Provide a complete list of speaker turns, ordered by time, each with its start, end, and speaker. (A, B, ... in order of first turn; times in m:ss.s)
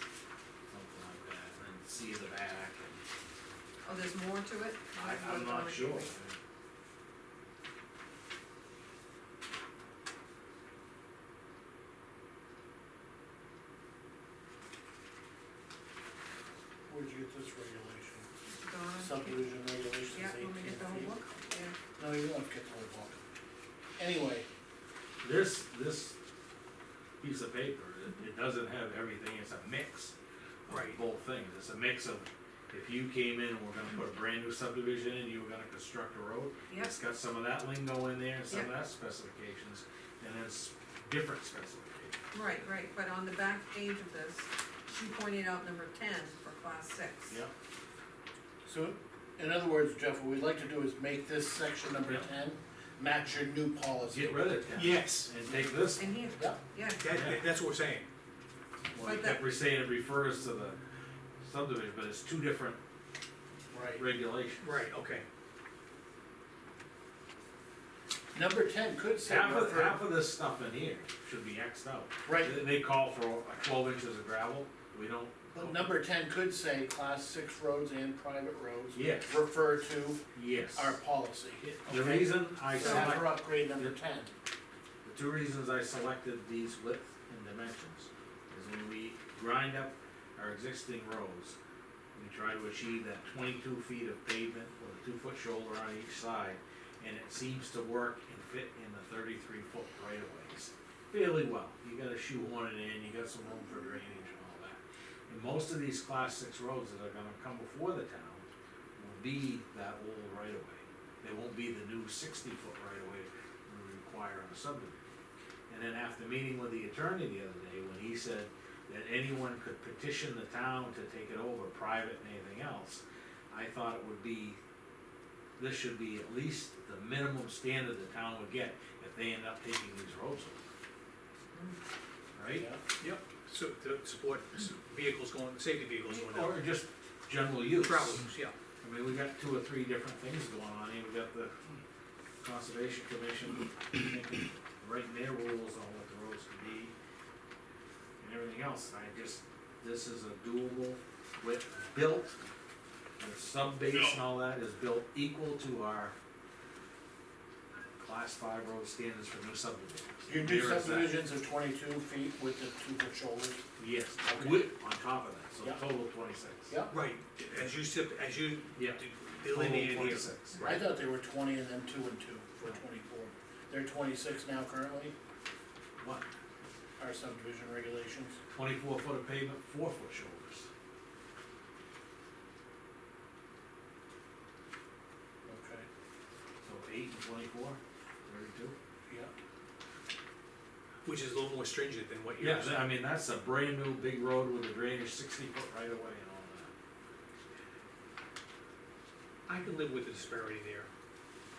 0:00.7-0:03.0 A
0:03.8-0:06.1 B
0:04.9-0:06.4 A
0:16.9-0:18.3 C
0:18.5-0:19.4 B
0:19.0-0:21.2 C
0:20.1-0:21.8 B
0:22.0-0:23.2 C
0:24.0-0:24.4 C
0:25.2-0:26.2 A
0:27.2-0:30.1 A
0:30.7-0:42.2 A
0:30.7-0:31.0 D
0:42.3-0:47.4 B
0:48.6-0:54.4 C
0:54.1-0:56.2 A
0:54.7-0:55.3 D
0:56.0-0:57.1 B
0:57.0-0:58.1 D
0:57.1-0:57.4 A
0:58.9-1:00.8 A
0:59.0-0:59.4 B
1:01.4-1:02.8 A
1:03.7-1:04.0 C
1:04.0-1:04.6 A
1:04.6-1:05.2 D
1:08.3-1:10.1 C
1:09.2-1:15.9 A
1:12.2-1:12.6 C
1:15.5-1:20.2 C
1:18.9-1:19.4 A
1:20.3-1:21.0 A
1:20.7-1:24.3 C
1:21.9-1:24.0 A
1:22.8-1:23.1 B
1:25.0-1:31.6 A
1:32.1-1:48.4 A
1:49.0-1:55.0 A
1:55.7-2:04.6 A
2:05.6-2:10.6 A
2:12.3-2:12.7 A
2:13.0-2:16.6 D
2:16.1-2:18.3 A
2:17.8-2:18.6 D
2:18.8-2:21.7 A
2:22.4-2:26.9 A
2:28.2-2:32.4 A
2:33.2-2:36.1 A
2:37.9-2:41.2 A
2:40.3-2:43.6 C
2:43.8-2:46.8 A
2:44.2-2:44.7 C
2:46.7-2:46.9 C
2:46.9-2:50.8 D
2:48.8-2:50.7 A
2:50.6-2:55.1 C
2:56.0-2:56.3 A
2:57.0-2:58.4 C
2:58.5-3:00.7 A
3:05.4-3:05.9 C
3:06.6-3:08.7 A
3:09.1-3:09.3 C
3:11.0-3:12.8 D
3:12.4-3:16.7 A
3:19.5-3:20.9 D